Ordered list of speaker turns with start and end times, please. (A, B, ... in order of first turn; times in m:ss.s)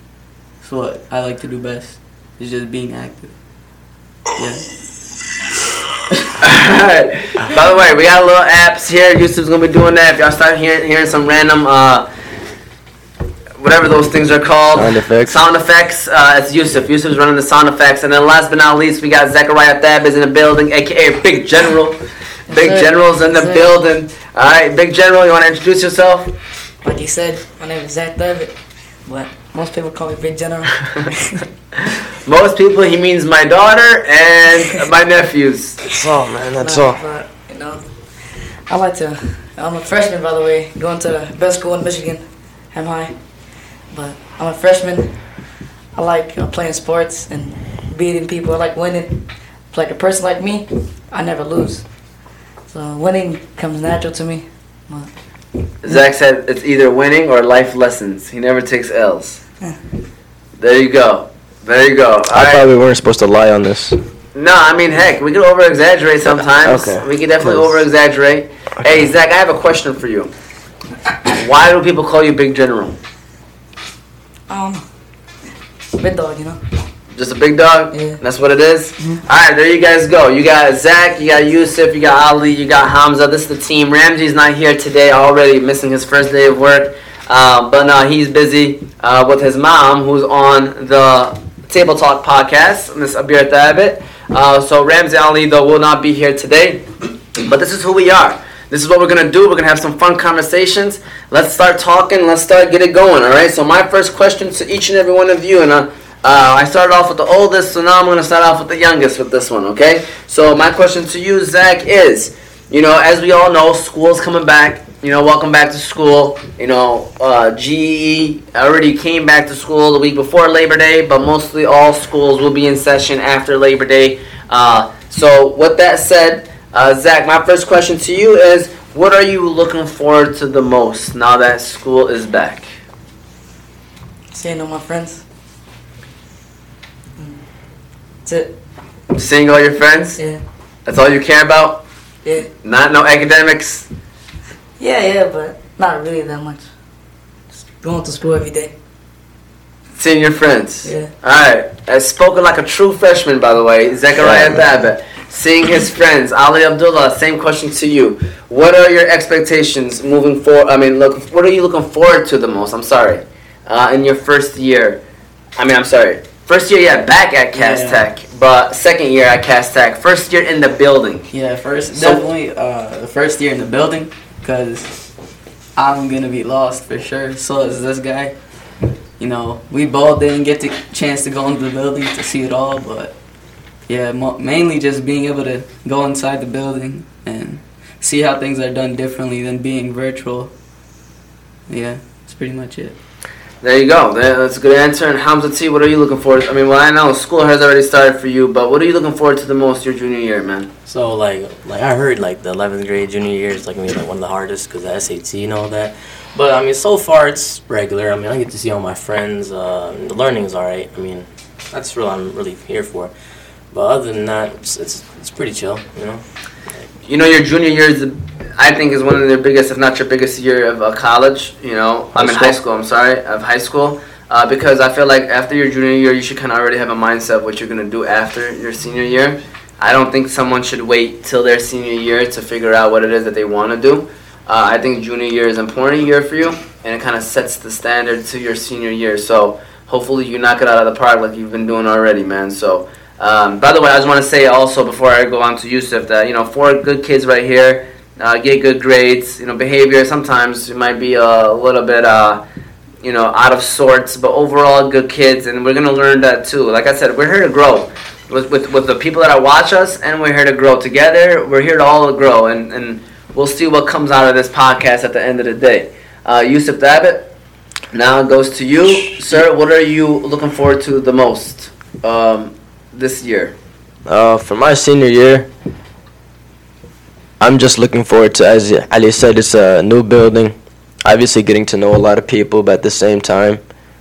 0:00.6-0:03.4 A
0:04.3-0:04.8 A
0:06.4-0:12.1 B
0:13.6-0:22.0 B
0:14.7-0:15.4 C
0:22.5-0:23.6 D
0:22.5-0:26.3 B
0:26.8-0:31.4 D
0:32.2-0:35.8 B
0:35.9-0:37.0 C
0:36.6-0:52.1 D
0:52.6-0:55.1 D
0:55.8-0:59.4 B
1:00.6-1:02.7 B
1:02.3-1:04.0 C
1:04.3-1:10.3 B
1:06.2-1:07.8 C
1:11.2-1:13.0 B
1:14.5-1:14.8 D
1:15.9-1:16.6 D
1:17.2-2:12.7 B
1:17.9-1:18.2 D
2:14.3-2:15.2 D
2:17.2-2:17.4 D
2:18.2-2:18.5 D
2:19.1-2:20.2 B
2:20.2-2:20.4 D
2:20.8-2:21.8 B
2:22.2-2:22.5 D
2:22.6-2:23.9 B
2:24.8-2:26.6 D
2:27.6-2:28.7 D
2:30.0-2:45.0 B
2:30.8-2:31.1 D
2:34.2-2:34.6 C
2:45.6-2:51.3 B
2:47.5-2:48.0 A
2:51.3-2:55.1 A
2:52.0-2:52.2 B
2:55.8-2:58.5 A
2:59.2-3:03.2 A
3:03.8-3:10.5 A
3:11.7-3:13.0 A
3:13.6-3:20.7 B
3:20.8-3:33.1 E
3:33.7-3:36.2 E
3:37.1-4:12.4 B
3:42.1-3:42.6 E
4:13.0-4:27.3 B
4:27.9-4:33.5 B
4:34.0-4:35.5 C
4:37.4-4:43.6 C